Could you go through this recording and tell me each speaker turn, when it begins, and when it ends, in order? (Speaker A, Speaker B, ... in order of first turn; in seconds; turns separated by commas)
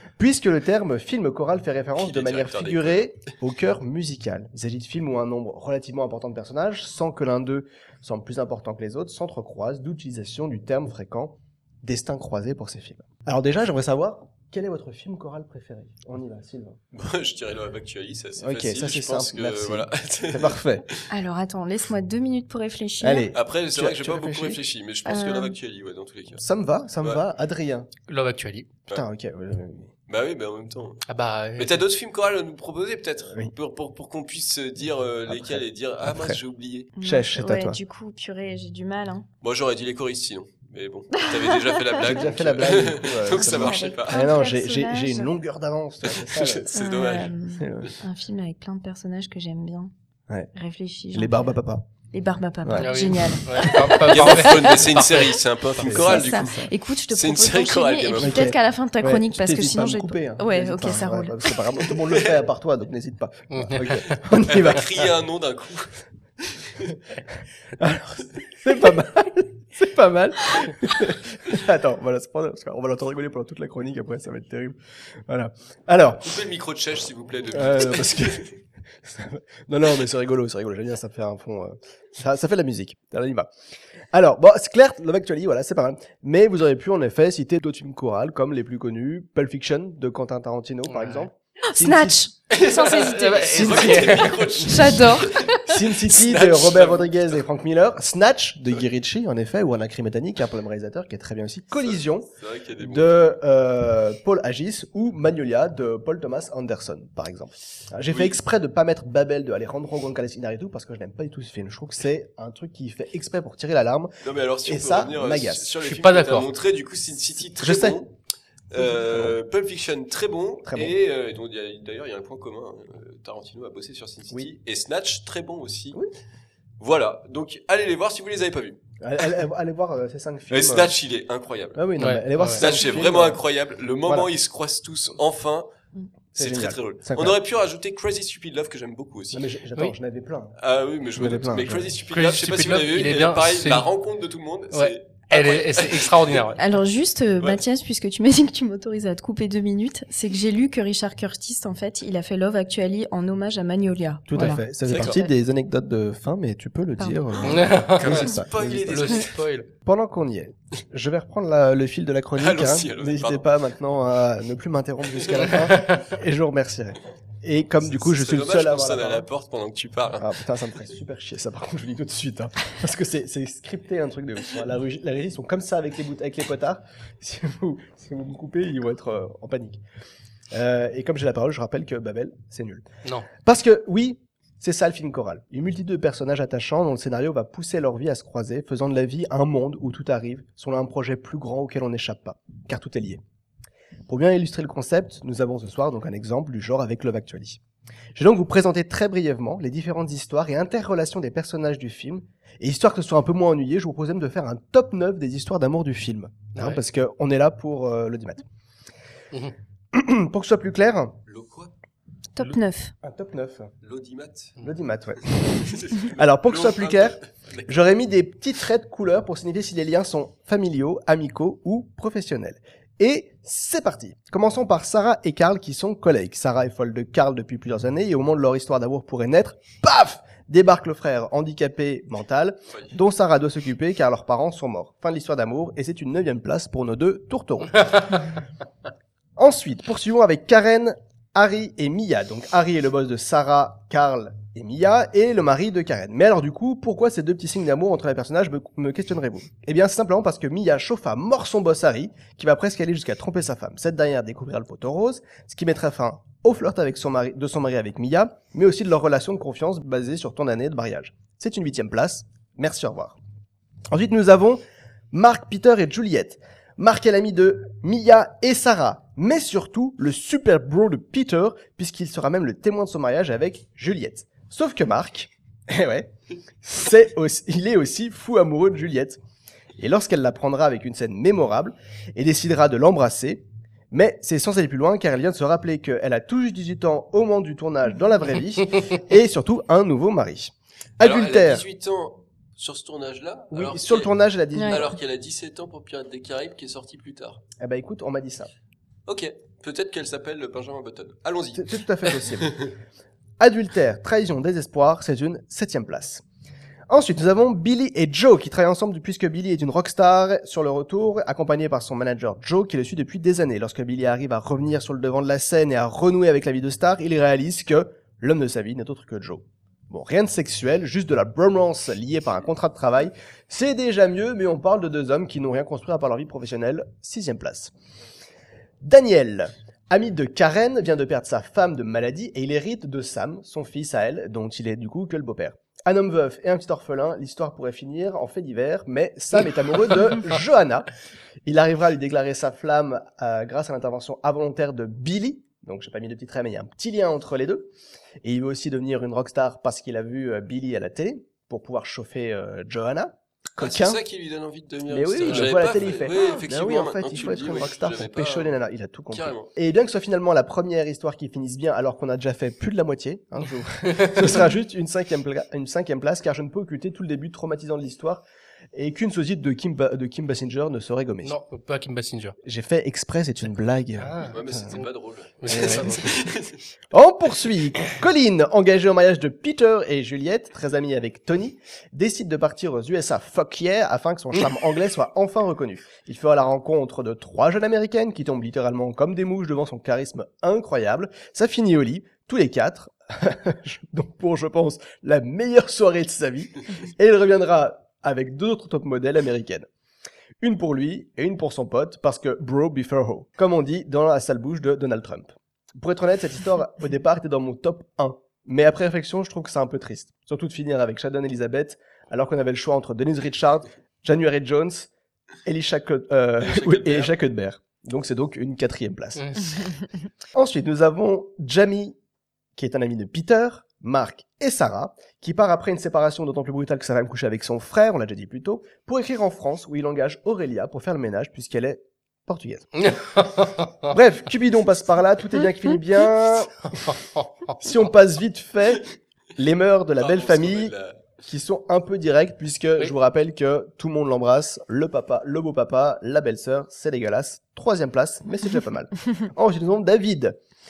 Speaker A: 0.2-16.8, Speaker B: 2.0-3.0, Speaker B: 16.9-21.0, Speaker A: 18.4-20.9, Speaker C: 21.1-23.3, Speaker A: 23.0-24.6, Speaker B: 23.3-26.4, Speaker C: 25.1-25.6, Speaker A: 26.4-27.9, Speaker D: 28.1-28.7, Speaker A: 28.9-29.9, Speaker B: 30.1-31.0, Speaker D: 31.1-31.8, Speaker B: 31.6-36.9, Speaker A: 35.3-36.4, Speaker C: 37.0-39.3, Speaker A: 37.0-37.8, Speaker B: 39.4-44.2, Speaker C: 41.3-42.1, Speaker A: 42.0-46.7, Speaker C: 43.4-45.3, Speaker B: 46.1-47.3, Speaker C: 46.7-49.9, Speaker A: 47.6-47.9, Speaker C: 50.5-51.5, Speaker A: 51.1-51.9, Speaker C: 52.1-54.8, Speaker A: 52.6-52.9, Speaker D: 52.8-55.4, Speaker B: 54.1-56.6, Speaker A: 55.8-56.7, Speaker C: 55.9-61.6, Speaker B: 57.1-58.5, Speaker A: 58.2-65.1, Speaker D: 63.5-64.2, Speaker B: 64.4-66.0, Speaker B: 66.6-66.9, Speaker A: 67.8-76.4, Speaker B: 76.2-78.5, Speaker A: 77.5-83.5, Speaker A: 84.1-92.2, Speaker D: 90.9-91.3, Speaker C: 91.7-93.4, Speaker B: 92.5-97.3, Speaker D: 93.0-94.5, Speaker A: 93.4-94.4, Speaker C: 94.7-95.6, Speaker A: 95.7-102.3, Speaker B: 101.8-103.2, Speaker A: 102.8-114.1, Speaker B: 108.1-108.4, Speaker B: 114.2-118.1, Speaker A: 114.6-115.7, Speaker D: 115.8-116.5, Speaker A: 117.6-118.0, Speaker B: 118.7-126.0, Speaker A: 118.8-119.4, Speaker A: 120.7-120.9, Speaker B: 126.8-128.8, Speaker A: 129.0-130.9, Speaker B: 130.5-131.8, Speaker A: 131.8-133.4, Speaker D: 132.0-132.6, Speaker B: 132.5-135.7, Speaker A: 134.1-134.3, Speaker B: 136.3-139.4, Speaker A: 136.4-137.4, Speaker A: 139.3-140.6, Speaker B: 140.6-146.3, Speaker A: 141.2-141.9, Speaker D: 142.1-143.9, Speaker D: 144.7-146.6, Speaker C: 146.6-155.3, Speaker A: 154.3-159.2, Speaker D: 154.3-155.2, Speaker C: 157.0-157.3, Speaker D: 157.4-159.7, Speaker B: 158.0-159.4, Speaker A: 159.8-169.3, Speaker B: 162.4-163.5, Speaker D: 165.7-166.0, Speaker B: 167.8-170.3, Speaker A: 170.2-179.8, Speaker A: 180.5-193.2, Speaker A: 194.1-197.6, Speaker A: 198.2-208.4, Speaker D: 206.6-206.8, Speaker A: 209.9-211.2, Speaker B: 211.3-211.7, Speaker C: 212.4-212.9, Speaker A: 213.0-213.7, Speaker B: 213.8-214.6, Speaker A: 214.6-215.2, Speaker B: 215.6-217.7, Speaker A: 216.0-238.3, Speaker A: 239.4-263.2, Speaker A: 263.9-279.2, Speaker A: 279.8-291.6, Speaker B: 291.0-294.1, Speaker A: 293.5-295.0, Speaker C: 294.6-294.8, Speaker B: 294.6-297.4, Speaker A: 297.6-298.5, Speaker B: 299.1-302.7, Speaker A: 301.6-302.7, Speaker A: 303.4-306.2, Speaker A: 306.9-327.7, Speaker A: 328.8-340.9, Speaker A: 341.4-347.7, Speaker A: 348.2-354.0, Speaker B: 353.6-358.6, Speaker A: 354.9-371.4, Speaker B: 359.1-359.5, Speaker D: 363.9-364.3, Speaker D: 371.2-372.4, Speaker A: 372.4-374.7, Speaker D: 374.0-374.9, Speaker B: 374.3-376.6, Speaker D: 375.4-376.2, Speaker A: 375.5-376.0, Speaker A: 376.9-399.7, Speaker A: 400.4-414.9, Speaker A: 415.4-419.4, Speaker B: 416.4-417.1, Speaker D: 419.2-419.6, Speaker A: 420.3-422.0, Speaker A: 422.6-432.7, Speaker D: 432.8-433.9, Speaker A: 433.9-436.8, Speaker D: 436.8-437.6, Speaker A: 437.6-438.9, Speaker A: 439.4-450.4, Speaker B: 440.0-441.0